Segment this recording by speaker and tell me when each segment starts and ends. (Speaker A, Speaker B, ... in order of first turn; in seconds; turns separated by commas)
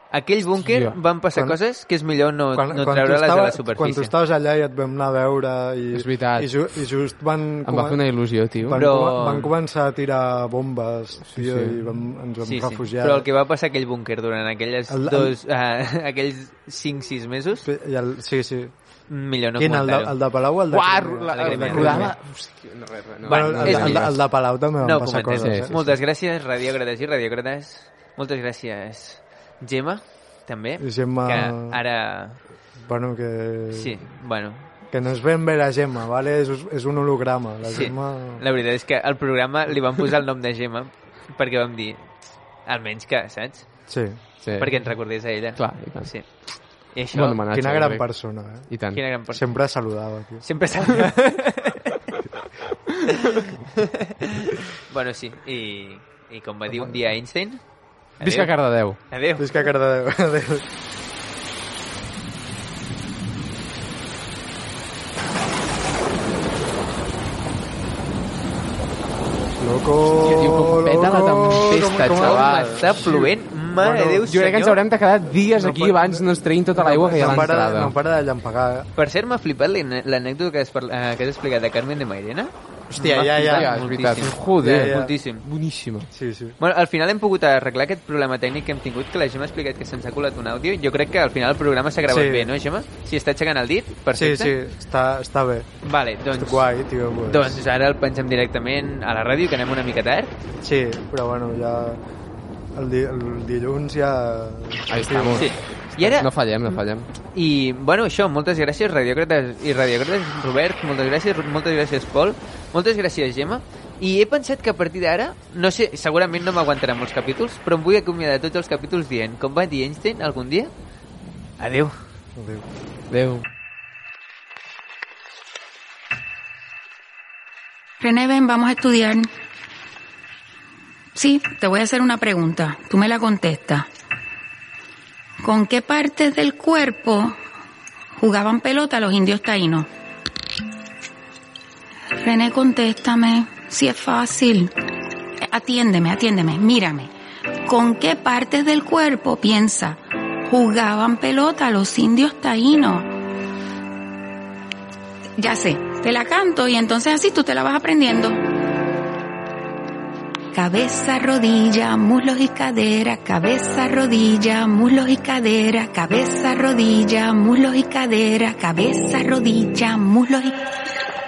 Speaker A: 0.1-4.1, Speaker B: 0.6-1.0, Speaker C: 2.5-8.0, Speaker B: 5.9-6.6, Speaker B: 7.6-8.8, Speaker C: 8.6-13.2, Speaker A: 8.7-9.5, Speaker B: 11.2-11.8, Speaker A: 12.4-17.7, Speaker C: 14.9-15.3, Speaker C: 17.6-18.7, Speaker A: 19.1-20.1, Speaker C: 19.6-22.1, Speaker B: 20.7-24.1, Speaker A: 21.3-22.1, Speaker A: 23.2-24.1, Speaker C: 23.3-25.9, Speaker A: 24.8-32.4, Speaker B: 25.4-25.7, Speaker C: 30.8-31.8, Speaker C: 32.8-34.0, Speaker A: 33.7-34.6, Speaker C: 34.9-38.4, Speaker A: 37.6-42.1, Speaker A: 42.6-43.7, Speaker C: 43.9-44.2, Speaker B: 44.4-44.8, Speaker A: 44.6-46.3, Speaker B: 45.5-46.1, Speaker A: 46.9-47.4, Speaker B: 47.1-48.0, Speaker C: 47.5-48.7, Speaker B: 48.7-49.0, Speaker A: 48.9-49.4, Speaker C: 49.3-50.4, Speaker A: 50.4-52.0, Speaker A: 53.1-57.6, Speaker A: 58.2-58.5, Speaker B: 58.2-59.0, Speaker A: 59.1-59.7, Speaker C: 59.4-60.6, Speaker C: 69.6-74.2, Speaker B: 70.0-73.1, Speaker A: 72.2-74.8, Speaker B: 74.2-77.9, Speaker C: 75.6-78.9, Speaker A: 79.0-85.4, Speaker C: 82.9-83.7, Speaker B: 83.3-86.1, Speaker C: 84.6-85.1, Speaker C: 86.1-86.5, Speaker A: 86.6-94.5, Speaker C: 92.1-92.5, Speaker C: 94.1-95.7, Speaker A: 95.8-96.7, Speaker C: 96.3-97.6, Speaker A: 97.3-100.3, Speaker C: 100.6-102.0, Speaker C: 102.7-105.5, Speaker B: 104.9-107.1, Speaker A: 105.4-106.3, Speaker A: 107.3-120.7, Speaker A: 121.6-121.9, Speaker C: 122.4-122.6, Speaker B: 123.1-123.4, Speaker D: 128.0-129.3, Speaker D: 131.1-133.9, Speaker D: 135.4-137.4, Speaker D: 138.2-139.9, Speaker D: 142.2-144.7, Speaker D: 145.5-147.1, Speaker D: 147.6-153.1, Speaker D: 155.4-158.4, Speaker D: 160.5-170.6